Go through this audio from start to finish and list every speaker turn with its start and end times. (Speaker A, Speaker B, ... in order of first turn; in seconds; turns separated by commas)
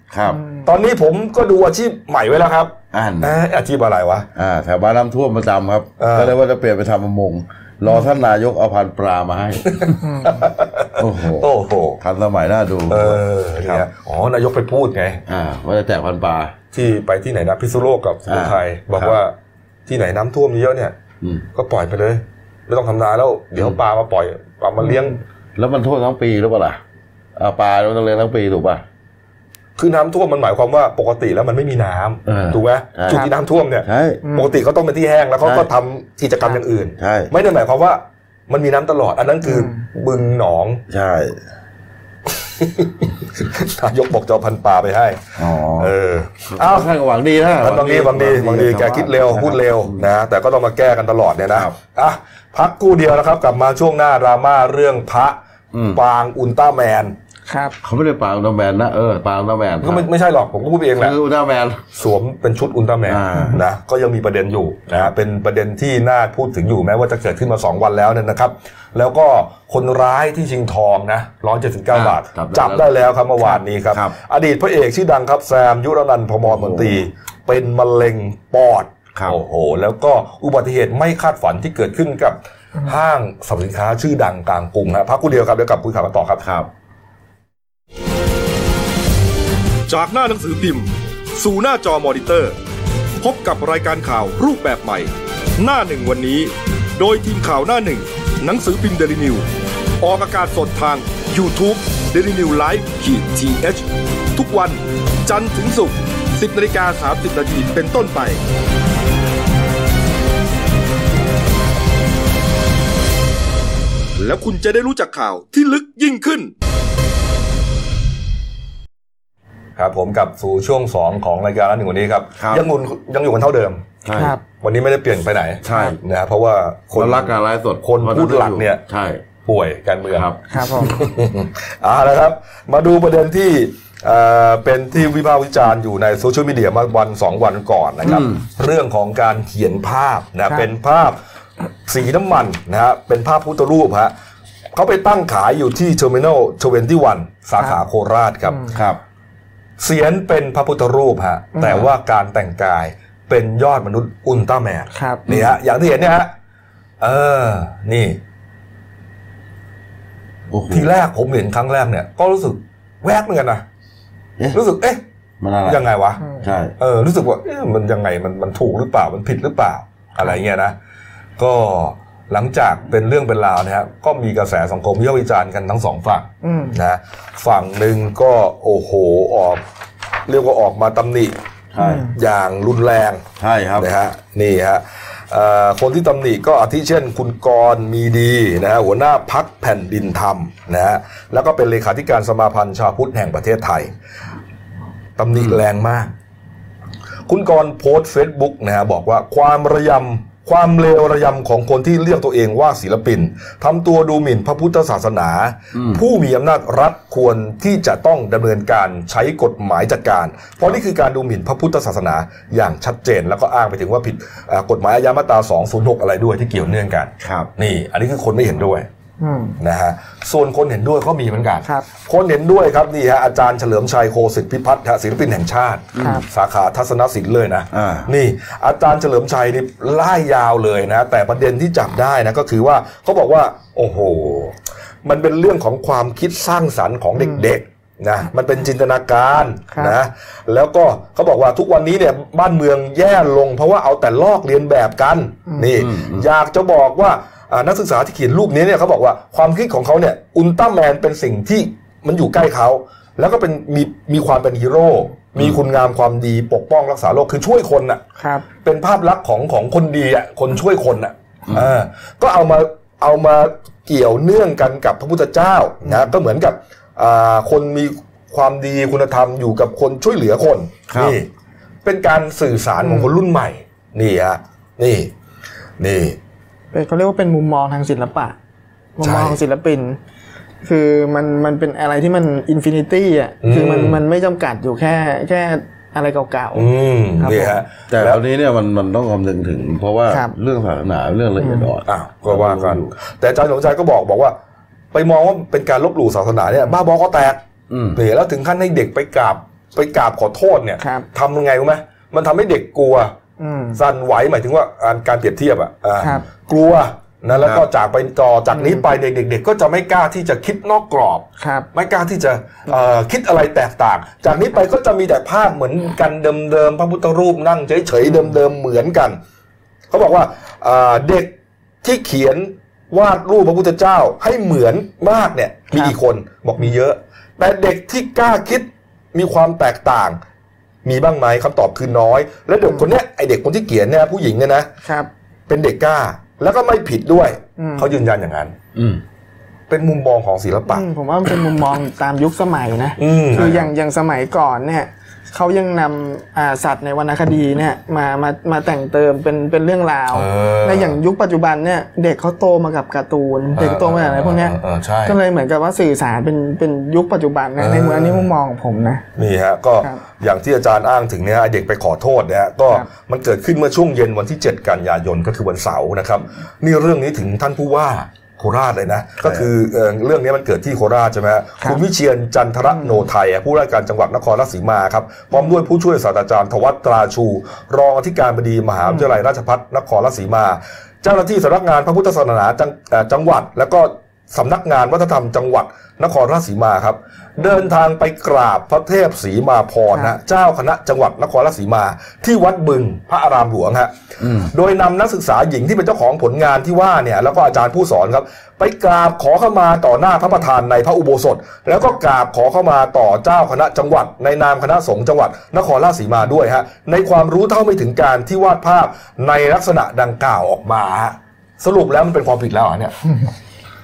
Speaker A: 0.1-0.4, Speaker B: 0.3-0.6, Speaker C: 0.6-4.3, Speaker A: 2.9-3.4, Speaker A: 4.3-10.0, Speaker C: 6.0-6.3, Speaker C: 9.7-12.0, Speaker B: 10.0-10.4, Speaker A: 11.0-11.5, Speaker A: 12.0-13.8, Speaker C: 12.9-15.2, Speaker A: 15.3-16.5, Speaker C: 16.7-19.3, Speaker A: 18.3-19.2, Speaker C: 19.9-20.9, Speaker C: 21.5-25.2, Speaker A: 25.6-26.8, Speaker A: 27.4-28.8, Speaker C: 29.8-40.8, Speaker A: 32.2-33.3, Speaker A: 33.8-34.2, Speaker B: 34.2-34.5, Speaker A: 35.4-35.7, Speaker A: 37.0-37.3, Speaker B: 39.4-39.8, Speaker A: 40.9-41.4, Speaker C: 42.5-46.9, Speaker A: 45.4-45.9, Speaker A: 46.5-50.1, Speaker C: 47.6-55.4, Speaker A: 55.7-56.0, Speaker C: 55.9-57.1, Speaker B: 57.5-57.8, Speaker A: 57.8-60.1, Speaker C: 59.8-61.1, Speaker A: 61.0-61.8, Speaker C: 61.9-86.4, Speaker A: 63.0-63.6, Speaker A: 71.9-72.9, Speaker A: 76.4-77.0, Speaker A: 86.4-86.7, Speaker C: 89.9-92.5, Speaker C: 93.2-99.5, Speaker C: 100.0-108.4, Speaker C: 114.2-116.5, Speaker C: 119.8-123.8, Speaker A: 122.4-122.6, Speaker A: 124.0-124.3, Speaker B: 124.2-124.4, Speaker C: 124.6-128.8, Speaker A: 125.6-126.0, Speaker A: 126.9-129.2, Speaker C: 129.4-141.2, Speaker A: 130.1-130.9, Speaker B: 130.5-131.0, Speaker A: 138.0-138.4, Speaker C: 141.9-144.1, Speaker C: 144.7-148.6, Speaker B: 148.4-148.8, Speaker A: 148.7-149.0, Speaker C: 149.8-156.3, Speaker B: 151.6-151.8, Speaker B: 154.9-155.3, Speaker A: 155.3-155.5, Speaker C: 157.0-158.2, Speaker A: 160.5-160.9, Speaker C: 160.7-163.6, Speaker C: 164.5-165.0, Speaker A: 165.4-165.8, Speaker C: 165.6-166.2, Speaker A: 166.4-166.7, Speaker C: 166.8-170.7, Speaker C: 171.4-179.6, Speaker B: 176.4-176.8, Speaker C: 180.3-181.3, Speaker A: 181.7-182.1, Speaker B: 181.8-182.1, Speaker C: 182.1-183.2, Speaker A: 183.4-183.9, Speaker C: 183.8-193.9, Speaker C: 195.2-196.1, Speaker A: 195.3-195.6, Speaker C: 197.3-218.9, Speaker A: 205.7-206.0, Speaker A: 217.2-217.5, Speaker B: 219.2-219.6, Speaker C: 219.6-258.0, Speaker A: 225.9-226.2, Speaker B: 226.0-226.2, Speaker A: 227.7-228.1, Speaker B: 237.2-237.4, Speaker A: 245.8-246.3, Speaker B: 258.2-258.4, Speaker C: 258.6-271.3, Speaker A: 261.5-261.7, Speaker B: 265.8-266.1, Speaker A: 270.9-271.1, Speaker C: 271.8-275.1, Speaker B: 272.8-273.1, Speaker C: 275.8-276.2, Speaker B: 276.7-278.3, Speaker B: 279.0-280.0, Speaker C: 279.0-279.4, Speaker B: 280.6-286.7, Speaker C: 283.4-284.0, Speaker C: 286.5-288.2, Speaker B: 287.2-287.6, Speaker A: 287.9-292.9, Speaker B: 291.4-291.7, Speaker C: 291.9-294.3, Speaker C: 294.9-297.4, Speaker A: 297.7-298.0, Speaker C: 297.9-303.1, Speaker B: 300.8-301.1, Speaker B: 303.4-303.8, Speaker C: 303.8-319.2, Speaker A: 307.4-307.6, Speaker B: 308.5-308.8, Speaker B: 311.4-311.7, Speaker B: 318.0-318.4, Speaker C: 319.9-321.3, Speaker C: 321.8-330.2, Speaker C: 330.8-334.7, Speaker B: 334.8-335.1, Speaker C: 335.5-338.5, Speaker B: 337.6-337.9, Speaker A: 338.7-339.0, Speaker C: 339.7-340.9, Speaker B: 340.7-359.0, Speaker C: 343.0-343.7, Speaker C: 350.1-351.0, Speaker C: 353.5-355.2, Speaker C: 357.6-358.3, Speaker C: 359.1-412.9, Speaker A: 369.2-369.5, Speaker B: 372.8-373.1, Speaker A: 394.2-394.5